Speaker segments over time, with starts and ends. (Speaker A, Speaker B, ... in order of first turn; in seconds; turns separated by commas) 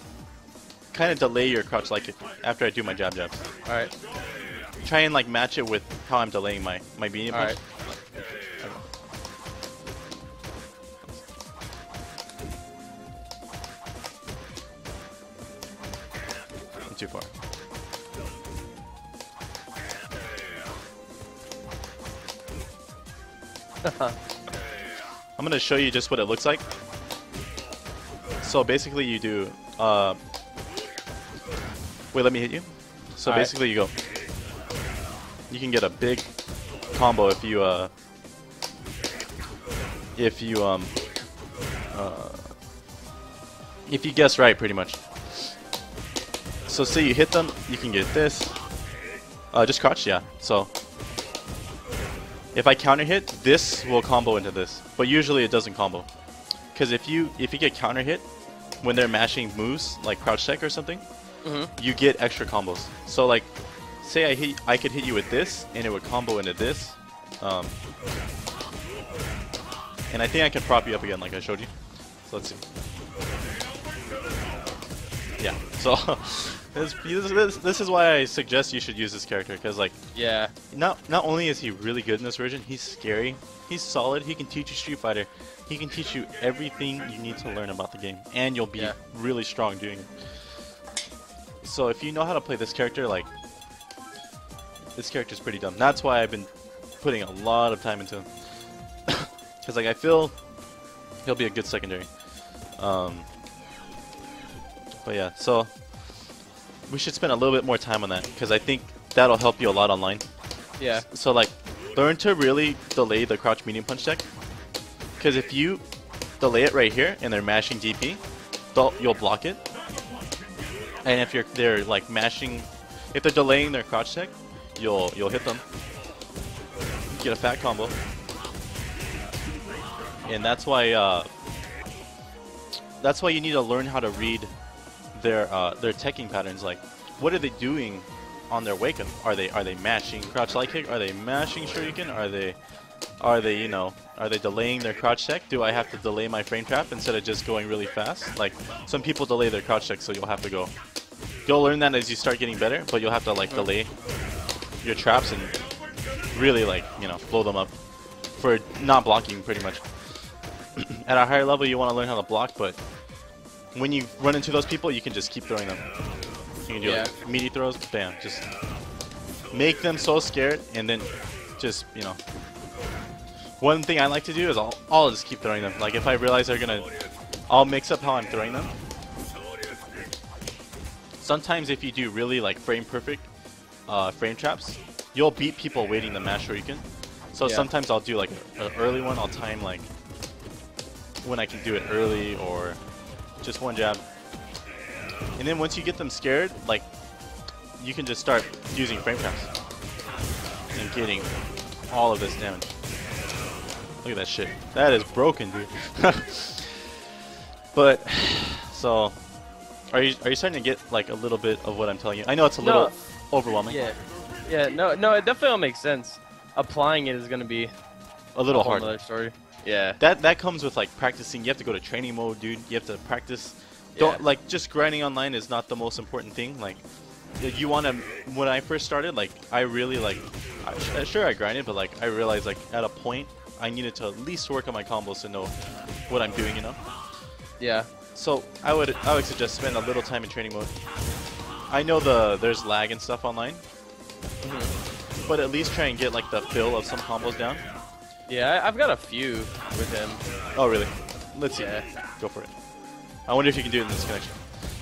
Speaker A: 0.9-3.5, Speaker B: 3.6-3.9, Speaker A: 4.8-8.0, Speaker B: 7.3-7.6, Speaker A: 8.6-8.8, Speaker A: 16.9-17.3, Speaker B: 23.8-24.2, Speaker A: 25.4-26.6, Speaker A: 28.4-30.2, Speaker A: 32.1-33.9, Speaker B: 33.2-33.5, Speaker A: 35.5-36.3, Speaker A: 36.9-37.9, Speaker A: 40.2-40.9, Speaker A: 41.9-42.5, Speaker A: 43.9-45.5, Speaker A: 46.7-48.6, Speaker A: 49.5-50.7, Speaker A: 52.5-56.1, Speaker A: 56.7-58.2, Speaker A: 58.8-61.0, Speaker B: 61.4-61.7, Speaker A: 61.8-67.7, Speaker A: 70.1-71.7, Speaker A: 72.3-72.6, Speaker A: 75.4-80.0, Speaker B: 80.2-80.5, Speaker A: 80.7-90.1, Speaker A: 91.6-93.3, Speaker A: 95.0-98.3, Speaker A: 99.1-100.4, Speaker A: 101.2-102.1, Speaker A: 102.8-103.3, Speaker A: 105.0-105.7, Speaker A: 106.9-110.2, Speaker B: 110.8-111.0, Speaker A: 110.9-114.2, Speaker A: 115.2-115.8, Speaker A: 116.4-118.2, Speaker A: 118.7-119.6, Speaker A: 121.0-125.6, Speaker A: 127.1-128.0, Speaker A: 130.3-131.3, Speaker A: 133.0-134.5, Speaker A: 135.1-142.6, Speaker A: 143.2-150.7, Speaker A: 151.4-153.9, Speaker A: 154.8-155.6, Speaker A: 156.3-157.7, Speaker A: 158.4-159.8, Speaker A: 160.8-162.8, Speaker A: 163.8-165.8, Speaker A: 166.7-168.5, Speaker B: 166.8-167.1, Speaker A: 169.5-172.2, Speaker A: 173.6-176.9, Speaker A: 177.5-178.7, Speaker A: 181.2-183.3, Speaker A: 183.9-189.9, Speaker B: 187.4-187.7, Speaker A: 191.2-192.8, Speaker A: 193.4-194.0, Speaker A: 195.4-196.9, Speaker A: 197.8-199.5, Speaker A: 200.8-201.3, Speaker A: 201.9-202.7, Speaker A: 204.0-206.8, Speaker A: 207.7-209.2, Speaker A: 209.9-213.8, Speaker B: 212.6-212.9, Speaker B: 213.7-217.7, Speaker A: 218.3-219.0, Speaker B: 218.5-220.0, Speaker A: 220.0-226.8, Speaker B: 224.0-224.2, Speaker A: 227.4-235.5, Speaker A: 236.1-236.8, Speaker B: 237.6-237.9, Speaker A: 238.2-240.7, Speaker A: 241.7-243.6, Speaker B: 244.4-244.8, Speaker A: 245.3-247.6, Speaker B: 248.3-250.2, Speaker A: 250.6-252.5, Speaker B: 251.5-251.9, Speaker A: 253.3-254.4